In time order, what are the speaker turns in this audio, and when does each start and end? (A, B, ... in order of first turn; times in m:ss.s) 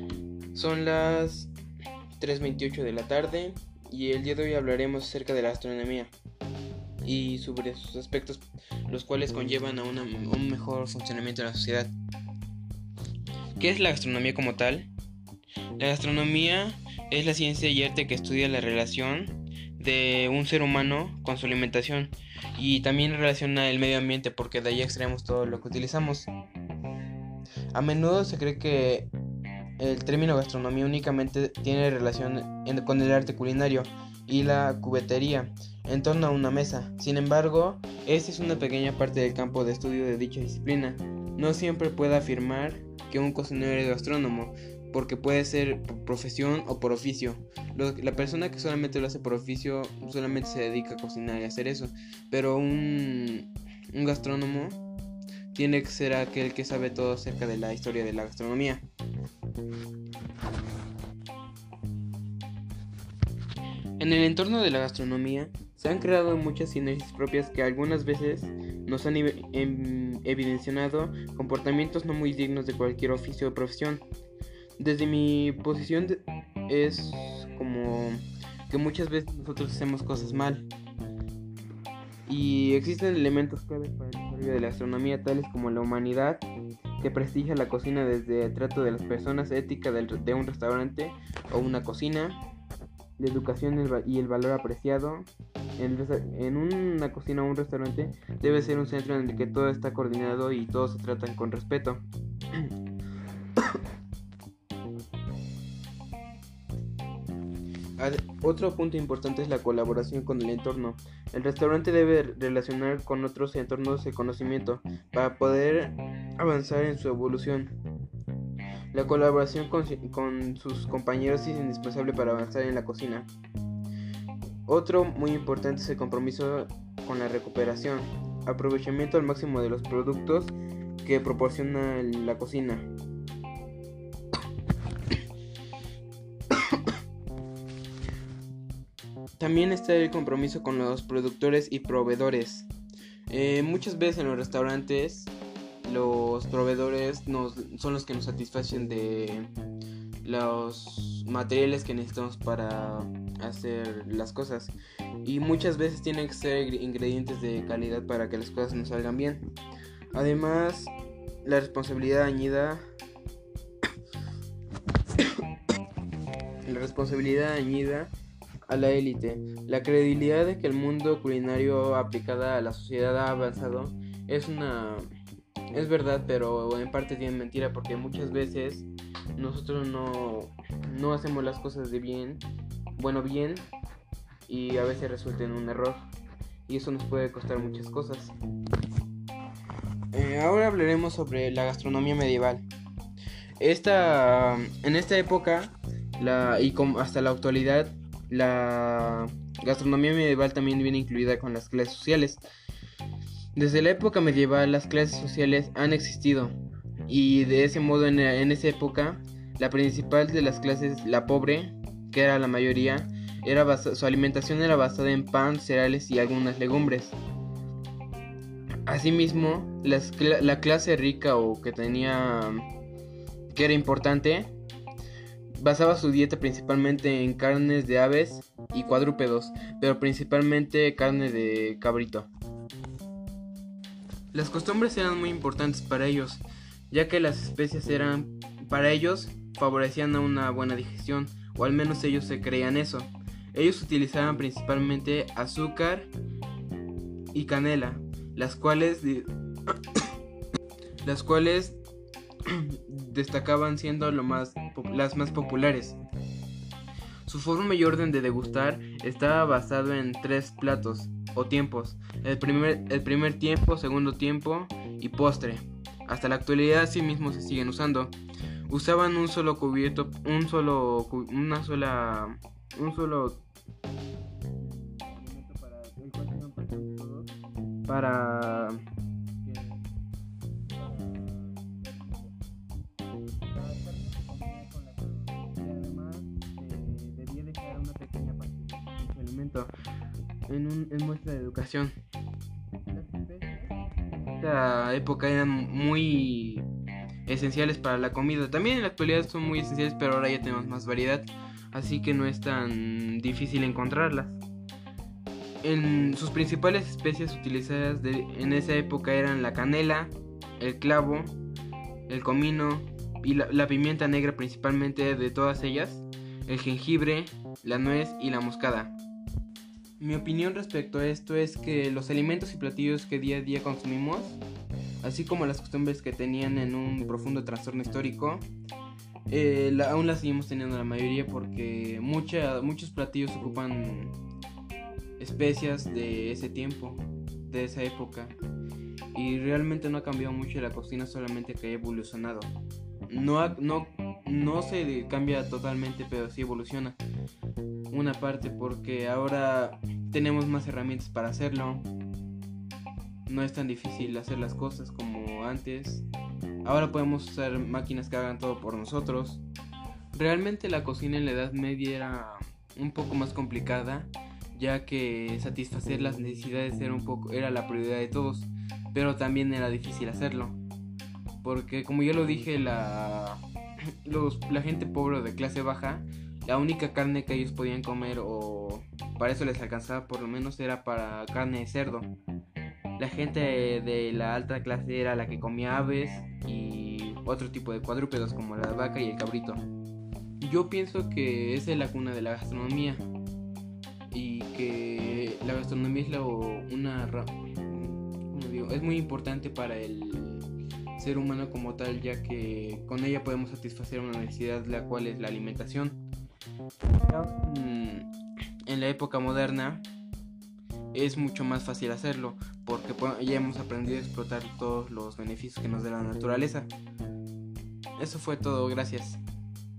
0:00.5-0:01.5 A
0:02.2-0:06.1 A
0:07.0-0:11.9 A
0:13.6-0:14.9 A
0:15.8-0:26.3 A
0:27.7-0:29.1 A
0:29.8-0:54.8 A
0:55.5-0:58.8 A
1:04.0-1:14.0 A
1:14.8-1:20.7 A
1:22.3-1:26.4 A
1:27.0-1:32.4 A
1:33.2-1:42.0 A
1:48.0-1:57.7 A
1:58.9-2:03.3 A
2:04.7-2:12.9 A
2:16.5-2:16.9 A
2:19.4-2:22.7 A
2:23.3-2:25.3 A
2:25.8-2:29.5 A
2:30.2-2:39.4 A
2:40.1-2:40.9 A
2:41.4-2:42.8 A
2:46.6-2:48.1 A
2:48.7-2:55.1 A
2:55.7-3:02.4 A
3:03.0-3:03.7 A
3:04.5-3:06.0 A
3:06.6-3:08.3 A
3:10.1-3:12.6 A
3:13.6-3:22.4 A
3:23.5-3:26.5 A
3:27.1-3:37.2 A
3:38.9-3:42.7 A
3:43.5-3:44.5 A
3:45.6-3:52.3 A
3:54.3-4:06.1 A
4:07.3-4:09.3 A
4:11.0-4:11.8 A
4:12.4-4:16.0 A
4:17.2-4:28.1 A
4:28.7-4:33.4 A
4:34.6-4:37.3 A
4:37.9-4:38.8 A
4:39.4-4:39.9 A
4:40.7-4:42.4 A
4:43.4-4:49.7 A
4:50.5-4:51.9 A
4:52.9-4:56.6 A
4:57.3-5:04.4 A
5:05.6-5:11.3 A
5:12.1-5:18.9 A
5:20.0-5:24.4 A
5:25.0-5:28.4 A
5:29.3-5:34.1 A
5:35.2-5:38.4 A
5:39.1-5:42.5 A
5:43.1-5:47.0 A
5:47.9-5:51.8 A
5:53.3-5:56.1 A
5:56.6-5:59.4 A
6:00.1-6:10.6 A
6:11.4-6:13.4 A
6:14.0-6:22.1 A
6:23.0-6:29.6 A
6:30.4-6:33.0 A
6:34.1-6:46.0 A
6:46.9-6:48.1 A
6:48.6-6:49.8 A
6:50.9-6:56.7 A
6:58.0-6:59.2 A